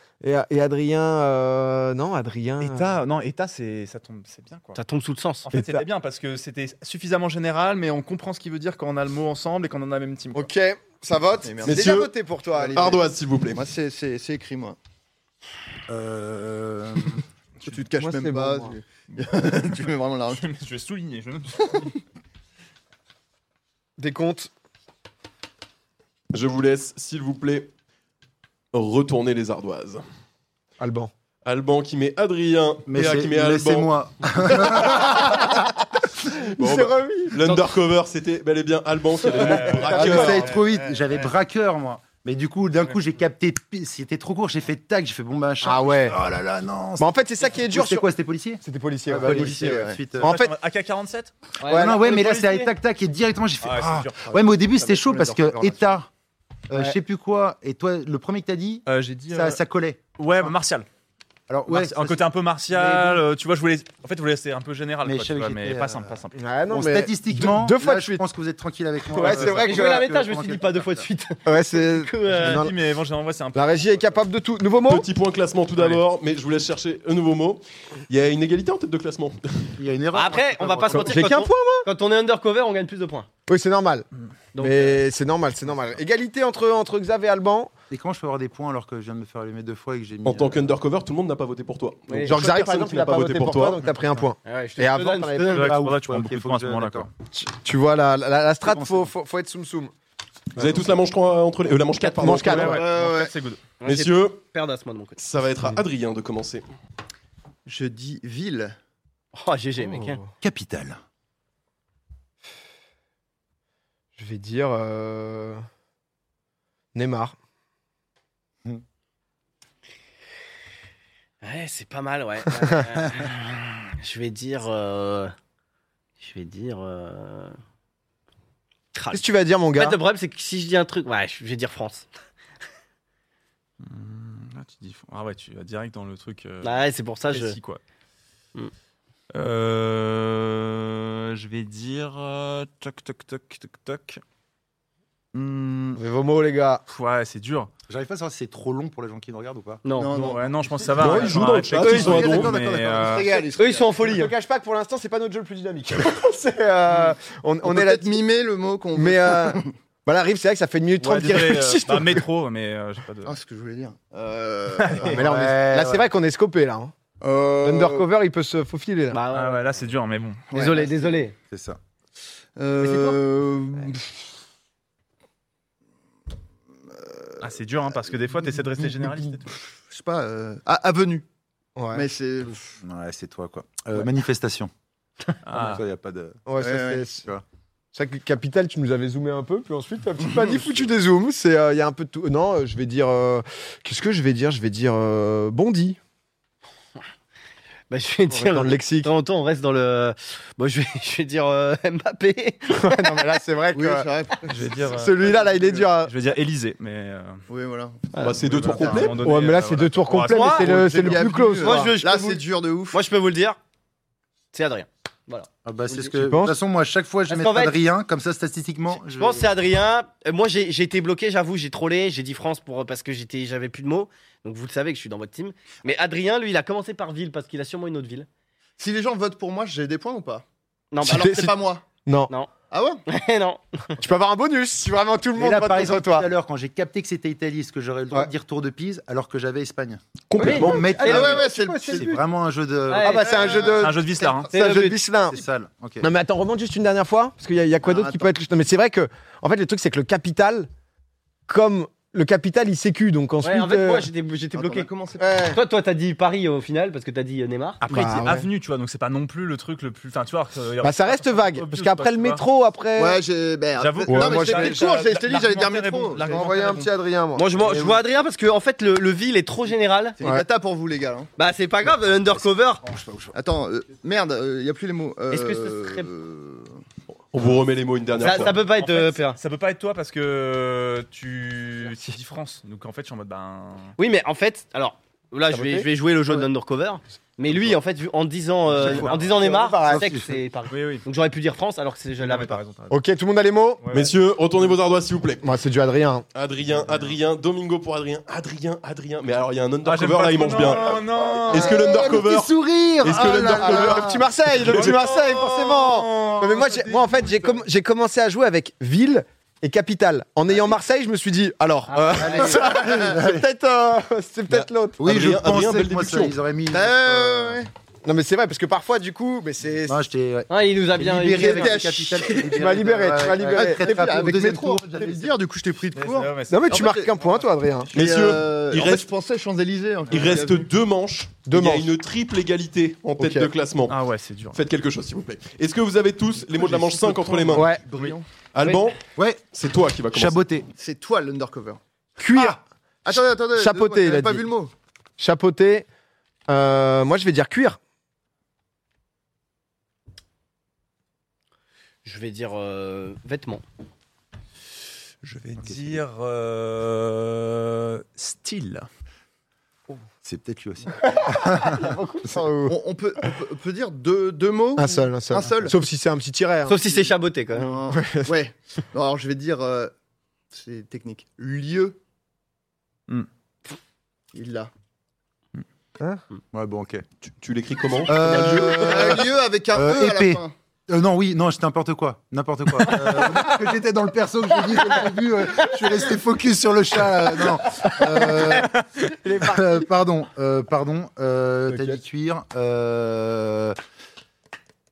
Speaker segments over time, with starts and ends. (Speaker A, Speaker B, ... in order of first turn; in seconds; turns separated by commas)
Speaker A: 0.2-3.0, Speaker B: 2.6-4.8, Speaker C: 4.8-5.5, Speaker B: 5.5-10.5, Speaker A: 5.5-5.8, Speaker A: 10.3-13.0, Speaker D: 11.4-12.0, Speaker E: 11.7-12.1, Speaker D: 12.6-14.8, Speaker E: 12.7-13.7, Speaker F: 15.9-17.2, Speaker D: 17.6-20.4, Speaker A: 18.0-18.8, Speaker B: 20.3-22.0, Speaker A: 24.0-24.5, Speaker E: 26.3-27.7, Speaker E: 28.7-30.0, Speaker A: 30.8-31.1, Speaker E: 31.4-33.9, Speaker F: 32.9-35.3, Speaker E: 34.5-35.1, Speaker A: 36.2-37.6, Speaker E: 36.4-40.5, Speaker B: 39.4-41.3, Speaker A: 39.5-40.5, Speaker F: 39.8-50.4, Speaker A: 45.6-46.2, Speaker A: 47.0-48.1, Speaker A: 48.6-50.5, Speaker D: 49.2-50.0, Speaker B: 50.2-51.3, Speaker C: 51.6-52.7, Speaker F: 51.7-56.1, Speaker A: 51.7-51.9, Speaker B: 53.6-55.4, Speaker F: 56.7-60.0, Speaker B: 58.9-59.6, Speaker B: 60.2-60.9, Speaker F: 61.5-63.2, Speaker B: 61.7-66.3, Speaker F: 65.0-66.2, Speaker A: 66.3-68.2, Speaker F: 66.7-71.1, Speaker A: 69.1-70.1, Speaker C: 69.2-72.7, Speaker A: 71.5-72.7, Speaker B: 72.3-74.0, Speaker A: 73.5-75.1, Speaker E: 74.9-79.7, Speaker F: 79.8-81.2, Speaker C: 80.1-83.3, Speaker A: 80.9-81.9, Speaker A: 83.5-84.1, Speaker C: 84.5-85.0, Speaker A: 84.6-87.7, Speaker F: 87.9-90.7, Speaker E: 90.2-93.8, Speaker C: 92.1-92.4, Speaker A: 92.2-95.8, Speaker C: 94.5-95.7, Speaker B: 95.5-97.1, Speaker F: 95.6-97.1, Speaker A: 97.3-99.9, Speaker F: 98.7-99.1, Speaker E: 100.5-102.8, Speaker A: 102.2-102.8, Speaker B: 102.3-103.6, Speaker D: 102.5-103.3, Speaker C: 103.8-105.2, Speaker E: 103.8-104.4, Speaker E: 105.2-106.7, Speaker D: 107.7-108.8, Speaker C: 109.3-110.2, Speaker A: 109.8-110.3, Speaker F: 110.4-111.0, Speaker A: 114.2-115.6, Speaker A: 116.9-117.4, Speaker C: 121.4-125.3, Speaker C: 126.2-127.6, Speaker C: 128.9-132.1, Speaker A: 129.1-130.0, Speaker B: 133.8-137.8, Speaker C: 136.6-137.6, Speaker B: 139.3-144.2, Speaker B: 145.3-146.0, Speaker A: 146.0-146.8, Speaker B: 146.9-147.7, Speaker F: 147.9-149.8, Speaker C: 149.8-150.3, Speaker D: 149.9-154.1, Speaker B: 150.1-153.3, Speaker A: 151.0-151.7, Speaker E: 151.0-152.5, Speaker F: 151.8-153.3, Speaker C: 153.6-154.3, Speaker A: 154.1-158.2, Speaker D: 157.7-159.7, Speaker A: 158.9-162.2, Speaker B: 161.0-163.3, Speaker D: 163.2-165.2, Speaker B: 164.8-165.2, Speaker F: 165.0-166.1, Speaker A: 165.0-166.9, Speaker D: 167.2-168.1, Speaker A: 167.6-169.2, Speaker C: 169.1-169.8, Speaker B: 169.3-170.5, Speaker D: 170.5-171.2, Speaker C: 170.5-171.3, Speaker F: 171.5-171.8, Speaker D: 172.6-174.2, Speaker C: 172.8-173.2, Speaker D: 176.9-177.4, Speaker B: 177.4-179.6, Speaker D: 179.8-181.2, Speaker A: 181.8-182.1, Speaker D: 181.9-182.6, Speaker F: 182.8-184.7, Speaker B: 185.5-185.8, Speaker F: 185.5-186.5, Speaker A: 186.5-187.3, Speaker D: 186.6-187.1, Speaker A: 187.9-196.0, Speaker C: 197.9-203.1, Speaker A: 198.3-199.1, Speaker A: 202.7-204.1, Speaker D: 203.7-205.8, Speaker B: 204.5-207.4, Speaker A: 204.9-206.1, Speaker D: 207.5-209.1, Speaker E: 208.2-209.2, Speaker B: 208.4-210.8, Speaker A: 209.2-211.9, Speaker C: 210.2-210.7, Speaker D: 210.6-213.0, Speaker C: 211.6-213.6, Speaker C: 214.5-216.1, Speaker F: 215.7-219.5, Speaker A: 216.2-216.6, Speaker C: 217.3-217.8, Speaker C: 219.0-228.3, Speaker D: 228.8-230.4, Speaker C: 230.9-231.5, Speaker D: 231.0-231.8, Speaker A: 231.0-231.5, Speaker A: 232.1-232.3, Speaker D: 232.7-233.0, Speaker C: 233.1-233.9, Speaker A: 234.0-236.3, Speaker F: 235.4-243.3, Speaker A: 240.3-242.1, Speaker C: 240.4-241.4, Speaker D: 240.7-242.2, Speaker C: 242.9-243.6, Speaker A: 243.0-245.4, Speaker D: 243.0-243.9, Speaker B: 243.7-244.5, Speaker C: 244.5-245.0, Speaker F: 245.3-246.1, Speaker A: 246.0-250.7, Speaker D: 247.8-248.3, Speaker A: 251.5-254.1, Speaker C: 253.4-254.9, Speaker D: 254.5-255.4, Speaker A: 255.2-255.6, Speaker C: 255.4-257.8, Speaker B: 257.8-262.4, Speaker A: 257.9-258.5, Speaker A: 260.8-263.2, Speaker D: 263.0-266.5, Speaker B: 263.8-266.9, Speaker A: 264.1-264.9, Speaker A: 266.2-268.0, Speaker C: 267.4-270.2, Speaker D: 270.2-271.3, Speaker A: 270.2-270.4, Speaker C: 271.4-272.8, Speaker F: 272.4-273.4, Speaker D: 273.3-276.8, Speaker C: 275.3-276.1, Speaker E: 277.3-278.6, Speaker C: 278.2-279.4, Speaker B: 278.4-283.9, Speaker C: 284.0-292.6, Speaker A: 285.5-286.5, Speaker F: 288.7-290.4, Speaker A: 288.8-290.1, Speaker B: 288.9-289.1, Speaker B: 290.7-291.0, Speaker B: 292.2-293.0, Speaker A: 292.9-293.8, Speaker B: 293.8-294.1, Speaker E: 293.9-295.5, Speaker A: 295.4-296.3, Speaker E: 296.3-304.9, Speaker B: 299.9-301.8, Speaker F: 301.6-304.1, Speaker A: 303.3-315.1, Speaker B: 304.6-307.6, Speaker C: 311.9-312.7, Speaker F: 312.1-313.4, Speaker D: 312.6-313.1, Speaker F: 315.0-317.6, Speaker E: 315.0-316.4, Speaker D: 316.7-317.7, Speaker A: 318.1-320.0, Speaker F: 319.8-325.3, Speaker C: 320.5-321.8, Speaker D: 321.4-322.5, Speaker A: 322.4-324.4, Speaker D: 323.5-327.1, Speaker B: 325.9-326.7, Speaker A: 326.5-327.9, Speaker E: 327.9-329.1, Speaker D: 327.9-330.7, Speaker E: 330.1-334.0, Speaker A: 331.5-331.9, Speaker A: 333.2-333.5, Speaker B: 333.9-334.6, Speaker E: 334.5-337.8, Speaker B: 336.9-338.0, Speaker D: 337.3-338.2, Speaker A: 337.5-337.9, Speaker E: 338.5-340.4, Speaker F: 339.2-339.5, Speaker F: 340.1-340.7, Speaker D: 340.8-341.8, Speaker A: 342.2-344.5, Speaker D: 343.1-344.7, Speaker A: 345.2-345.9, Speaker A: 346.5-347.8, Speaker C: 352.1-353.6, Speaker B: 355.2-358.9, Speaker F: 355.6-356.0, Speaker F: 360.2-361.9, Speaker C: 361.6-362.4, Speaker A: 362.3-362.8, Speaker D: 362.6-365.8, Speaker A: 364.8-366.9, Speaker C: 366.7-367.7, Speaker D: 367.5-369.9, Speaker A: 367.9-368.3, Speaker D: 370.5-372.0, Speaker D: 374.3-374.7, Speaker F: 376.5-377.1, Speaker E: 377.3-379.1, Speaker F: 378.1-388.7, Speaker D: 378.1-380.5, Speaker A: 389.2-389.9, Speaker F: 389.4-393.8, Speaker A: 391.7-392.0